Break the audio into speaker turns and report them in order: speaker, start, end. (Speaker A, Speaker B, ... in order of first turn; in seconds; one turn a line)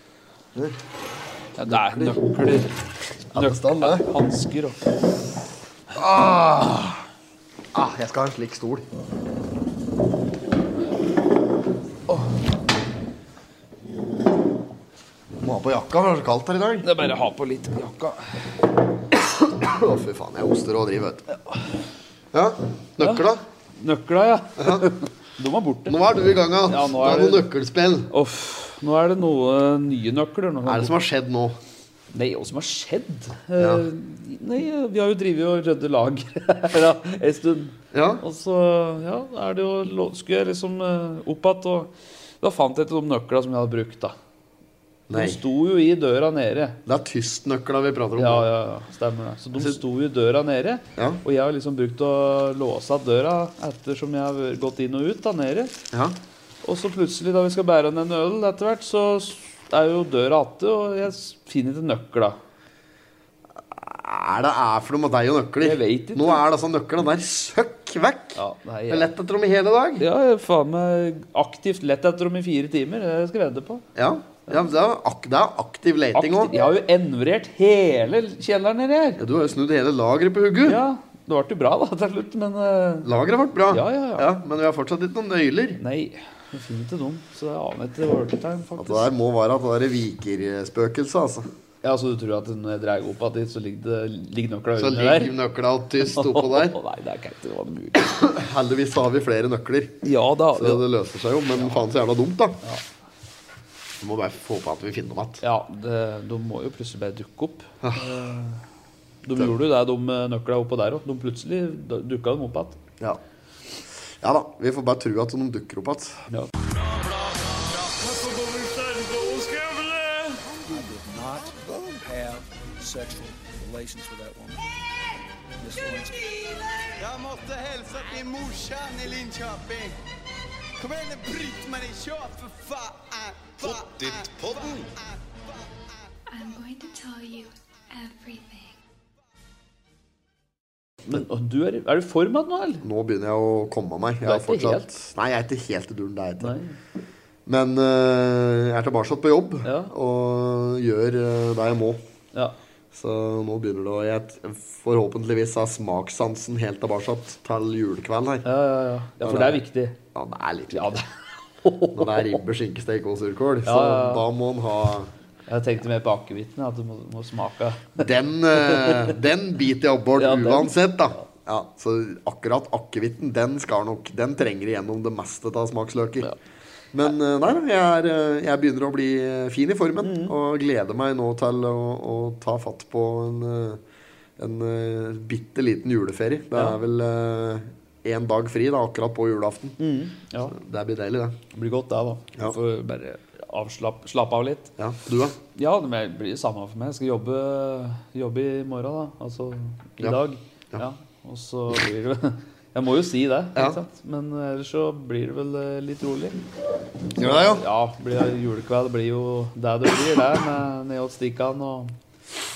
Speaker A: 1.6-2.8
Speaker B: 1.6-2.3
Speaker B: 3.3-4.1
Speaker A: 3.3-4.8
Speaker B: 5.9-7.0
Speaker B: 7.7-8.8
Speaker B: 15.4-16.9
Speaker A: 16.8-18.2
Speaker B: 19.1-21.2
Speaker B: 22.3-23.4
Speaker A: 23.8-25.9
Speaker B: 24.6-24.9
Speaker B: 25.9-28.1
Speaker A: 26.7-27.4
Speaker A: 28.1-30.9
Speaker B: 30.6-31.6
Speaker A: 32.1-44.1
Speaker B: 33.6-33.9
Speaker B: 37.9-38.2
Speaker B: 45.1-45.4
Speaker A: 45.1-46.8
Speaker B: 46.9-48.5
Speaker A: 48.2-55.8
Speaker B: 51.0-51.2
Speaker B: 55.9-56.1
Speaker A: 56.6-62.4
Speaker B: 63.7-70.0
Speaker A: 65.6-66.4
Speaker A: 68.3-69.1
Speaker A: 70.0-73.8
Speaker B: 74.0-76.5
Speaker A: 76.1-79.2
Speaker B: 79.2-80.8
Speaker A: 80.7-83.1
Speaker B: 83.0-85.8
Speaker A: 83.7-84.3
Speaker A: 85.8-89.1
Speaker B: 88.8-91.5
Speaker A: 91.8-95.3
Speaker B: 94.8-96.8
Speaker A: 96.1-98.1
Speaker B: 98.0-102.6
Speaker A: 100.0-100.8
Speaker A: 101.5-101.8
Speaker B: 104.0-105.4
Speaker A: 105.4-108.6
Speaker B: 107.8-108.1
Speaker A: 109.2-112.8
Speaker B: 114.2-116.2
Speaker C: 116.6-120.5
Speaker D: 120.6-124.6
Speaker D: 125.6-126.7
Speaker C: 126.9-129.9
Speaker C: 130.8-135.7
Speaker E: 136.3-138.8
Speaker A: 141.0-142.8
Speaker B: 142.8-146.5
Speaker A: 144.2-144.9
Speaker A: 146.4-146.8
Speaker B: 147.4-152.0
Speaker A: 149.6-149.9
Speaker B: 152.9-158.4
Speaker A: 158.4-160.0
Speaker B: 159.2-159.6
Speaker B: 160.1-161.0
Speaker A: 160.7-161.0
Speaker A: 161.6-162.4
Speaker B: 161.9-165.1
Speaker A: 163.6-164.2
Speaker A: 165.5-168.0
Speaker B: 168.0-176.3
Speaker A: 168.6-169.1
Speaker A: 170.2-170.8
Speaker B: 176.9-183.8
Speaker A: 180.0-180.3
Speaker B: 184.4-189.8
Speaker A: 189.8-190.5
Speaker B: 190.5-191.4
Speaker A: 191.5-194.7
Speaker B: 194.8-195.4
Speaker A: 195.5-206.3
Speaker B: 207.2-207.6
Speaker A: 207.2-211.9